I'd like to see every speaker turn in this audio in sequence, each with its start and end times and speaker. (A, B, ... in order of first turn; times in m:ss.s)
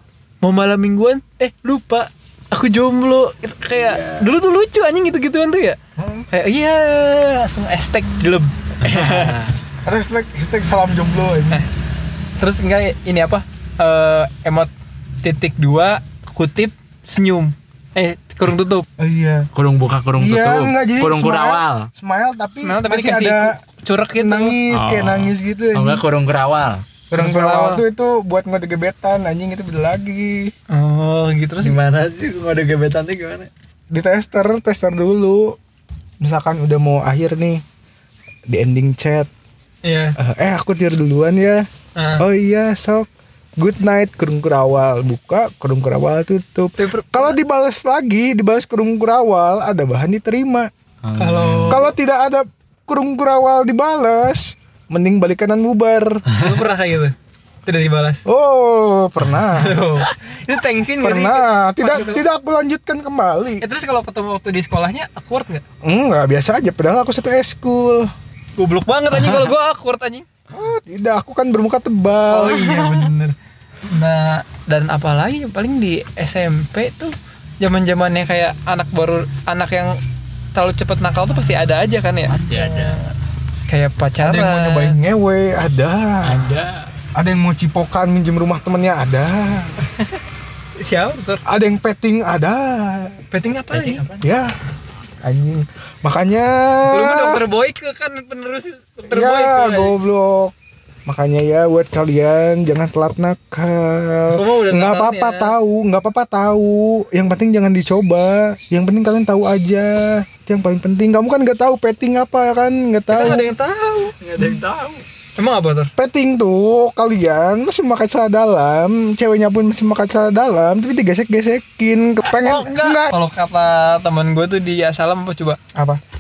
0:00.4-0:05.8 A
0:03.7-0:04.4 B
0:06.0-0:06.3 C
0:06.3-0:09.4 A
0:08.8-0:09.6 B
0:09.8-0:11.6 C
0:12.4-0:18.9 A
0:19.0-0:19.5 C
0:19.5-0:21.9 B
0:20.2-0:23.6 C
0:22.5-0:24.6 A
0:24.2-0:26.0 C
0:24.7-0:26.8 B
0:27.1-0:30.5 C
0:27.1-0:27.8 A
0:30.7-0:31.8 A
0:31.6-0:33.5 B
0:33.9-0:35.6 C
0:36.2-0:37.6 C
0:38.5-0:39.3 C
0:39.8-0:40.2 A
0:40.2-0:41.7 C
0:42.0-0:42.3 A
0:42.2-0:50.7 C
0:46.8-0:47.4 A
0:51.0-0:51.9 B
0:51.2-0:51.9 A
0:51.7-0:56.2 C
0:56.3-0:57.1 A
0:57.6-0:58.2 A
0:58.3-0:59.8 C
0:59.6-1:02.3 A
1:01.0-1:03.6 C
1:03.6-1:05.6 A
1:05.8-1:08.1 C
1:08.6-1:10.3 A
1:10.5-1:12.9 C
1:12.3-1:13.4 A
1:13.9-1:20.0 A
1:20.5-1:23.1 A
1:22.3-1:23.0 B
1:23.7-1:25.0 A
1:24.2-1:26.6 C
1:26.2-1:26.9 B
1:27.2-1:29.8 C
1:30.8-1:31.4 A
1:31.5-1:33.2 C
1:33.3-1:34.1 A
1:33.7-1:34.2 B
1:34.2-1:34.5 C
1:35.2-1:37.4 C
1:36.9-1:40.0 A
1:39.1-1:40.5 C
1:41.1-1:53.5 C
1:44.3-1:45.6 A
1:53.1-1:54.6 A
1:54.2-1:55.0 B
1:55.4-1:55.9 A
1:56.0-2:03.1 C
2:02.3-2:05.6 A